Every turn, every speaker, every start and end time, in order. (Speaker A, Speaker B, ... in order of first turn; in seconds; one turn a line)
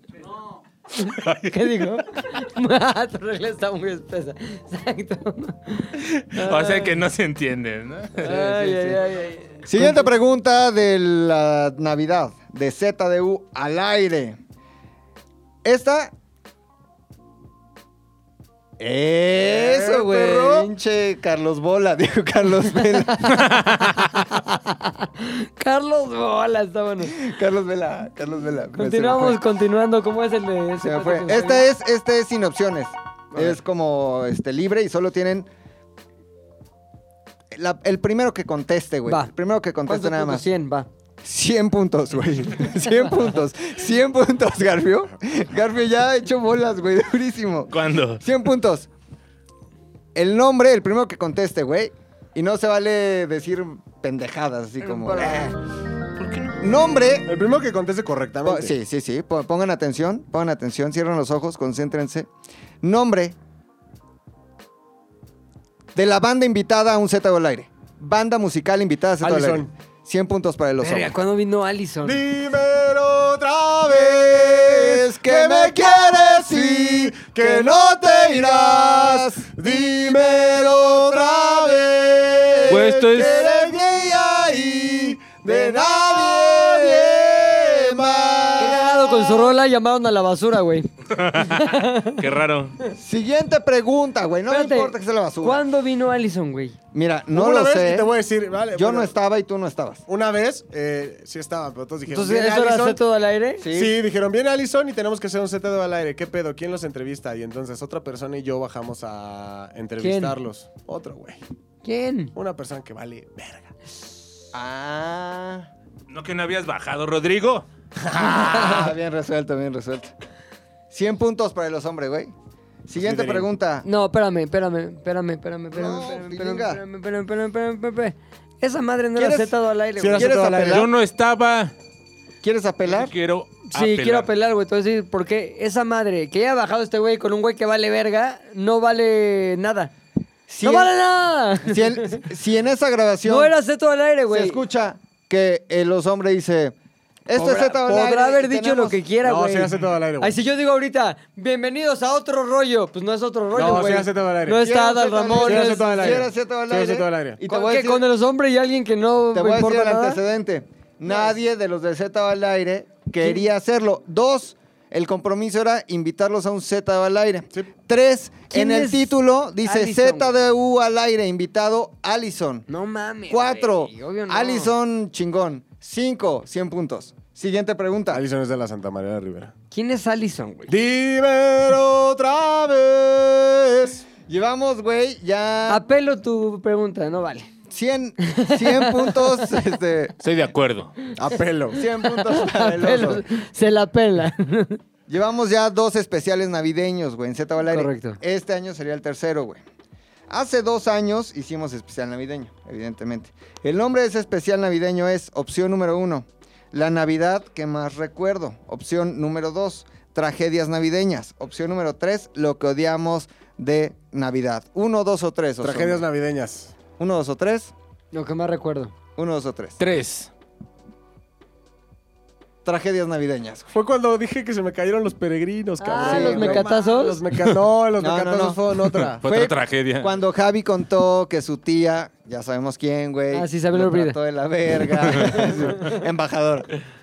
Speaker A: 1.0-7.0
Speaker B: 1.0-1.9
Speaker B: 6.0-8.3
Speaker A: 8.2-10.1
Speaker C: 8.2-9.0
Speaker C: 9.7-14.4
Speaker C: 15.6-16.1
Speaker C: 18.8-23.5
Speaker A: 19.6-20.7
Speaker A: 22.7-27.2
Speaker B: 23.3-24.1
Speaker C: 27.1-29.4
Speaker A: 28.8-31.7
Speaker C: 30.8-35.5
Speaker C: 37.5-40.5
Speaker A: 39.1-39.3
Speaker A: 39.9-40.9
Speaker C: 41.2-48.9
Speaker B: 47.7-48.2
Speaker C: 50.1-55.6
Speaker A: 54.9-55.5
Speaker B: 56.2-56.5
Speaker C: 56.6-57.3
Speaker D: 57.3-58.7
Speaker C: 58.5-62.3
Speaker C: 62.8-63.4
Speaker C: 66.0-71.1
Speaker D: 69.2-69.7
Speaker A: 70.8-72.2
Speaker D: 72.0-81.3
Speaker C: 73.9-89.6
Speaker D: 82.6-83.8
Speaker B: 82.7-83.4
Speaker D: 84.9-88.1
Speaker A: 88.6-92.2
Speaker B: 91.1-92.8
Speaker C: 92.9-95.7
Speaker A: 94.5-96.8
Speaker C: 96.9-98.1
Speaker D: 97.3-99.1
Speaker C: 98.7-100.0
Speaker D: 100.1-103.0
Speaker A: 102.1-103.7
Speaker C: 103.6-104.0
Speaker D: 103.7-111.4
Speaker A: 110.0-110.4
Speaker A: 111.8-112.3
Speaker D: 112.3-113.7
Speaker C: 114.5-115.7
Speaker B: 116.1-117.7
Speaker C: 118.1-120.1
Speaker A: 118.3-118.8
Speaker C: 120.9-122.3
Speaker C: 122.9-123.9
Speaker D: 123.0-123.5
Speaker A: 123.8-130.4
Speaker C: 125.7-126.8
Speaker C: 129.2-129.6
Speaker D: 130.0-130.8
Speaker C: 130.1-130.9
Speaker B: 130.7-131.7
Speaker C: 132.4-133.1
Speaker B: 132.9-134.3
Speaker A: 133.7-139.9
Speaker C: 140.5-140.9
Speaker A: 140.6-142.2
Speaker C: 141.6-143.5
Speaker A: 143.2-144.6
Speaker C: 144.3-146.8
Speaker C: 147.3-149.0
Speaker A: 147.4-156.3
Speaker D: 149.2-150.4
Speaker D: 153.5-154.6
Speaker C: 154.6-158.1
Speaker D: 155.4-157.4
Speaker A: 157.5-160.2
Speaker C: 159.3-172.7
Speaker A: 168.5-170.4
Speaker A: 172.7-174.7
Speaker C: 173.3-178.2
Speaker D: 178.1-179.5
Speaker A: 179.7-180.7
Speaker D: 180.7-184.0
Speaker C: 184.3-185.8
Speaker A: 185.7-187.5
Speaker C: 187.7-190.2
Speaker A: 188.2-189.6
Speaker B: 190.2-191.0
Speaker D: 191.2-191.8
Speaker C: 191.7-193.2
Speaker A: 192.0-194.8
Speaker C: 195.1-199.6
Speaker A: 197.7-198.2
Speaker C: 200.3-216.0
Speaker D: 215.6-216.7
Speaker C: 217.0-217.7
Speaker A: 218.1-218.9
Speaker C: 219.2-219.8
Speaker B: 219.8-220.3
Speaker C: 222.7-223.7
Speaker D: 223.7-229.2
Speaker A: 225.8-227.2
Speaker C: 226.0-226.7
Speaker C: 228.0-228.6
Speaker B: 229.2-230.2
Speaker C: 229.2-236.7
Speaker A: 233.3-234.2
Speaker B: 234.9-235.5